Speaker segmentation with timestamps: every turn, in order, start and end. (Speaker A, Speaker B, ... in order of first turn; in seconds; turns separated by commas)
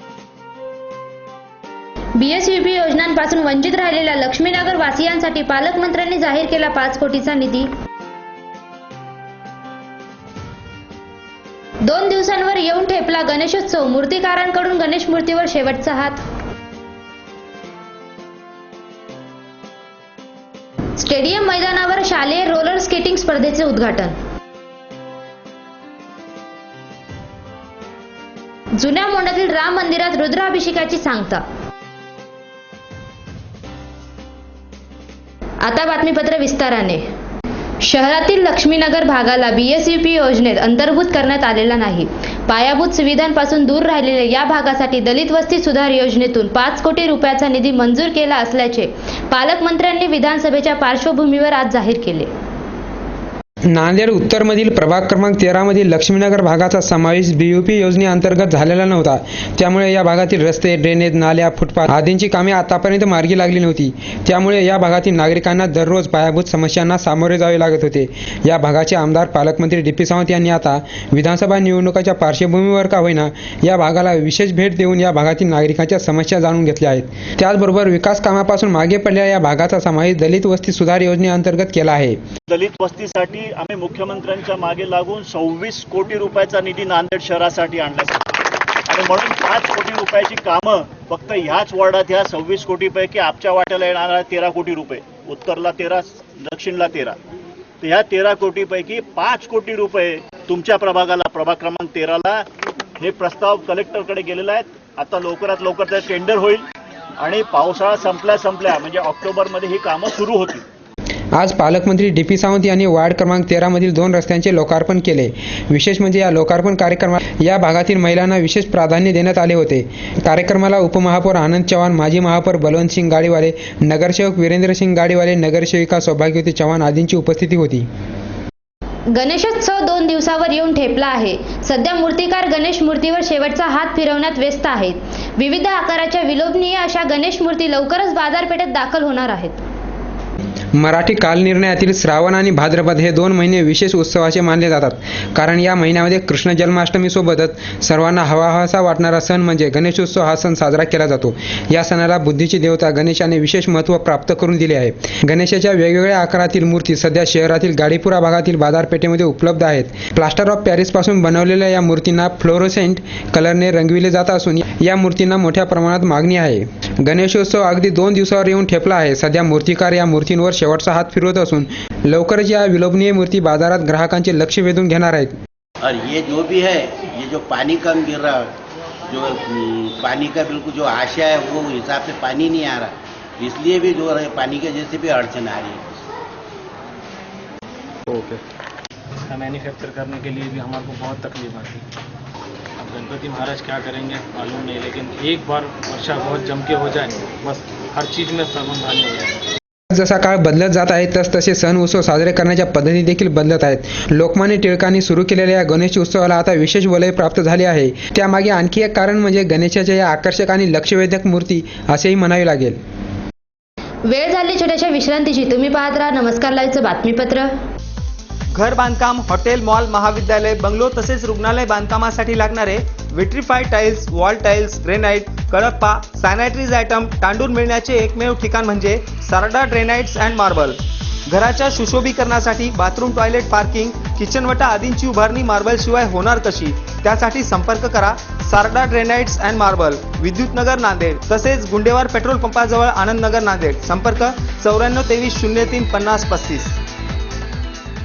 Speaker A: 2.1-7.7, Speaker A: 11.8-16.2, Speaker A: 21.0-24.2, Speaker A: 28.8-31.4, Speaker A: 35.6-37.0, Speaker A: 37.8-52.3, Speaker B: 53.7-82.2, Speaker C: 82.5-97.2, Speaker C: 97.8-102.4, Speaker C: 103.0-106.6, Speaker C: 107.2-110.6, Speaker B: 111.4-127.9, Speaker A: 129.1-139.6, Speaker B: 140.8-175.4, Speaker D: 175.8-178.5, Speaker D: 179.1-185.8, Speaker E: 189.3-191.8, Speaker E: 192.8-199.4, Speaker B: 199.9-212.8, Speaker A: 214.1-217.6, Speaker F: 218.5-246.8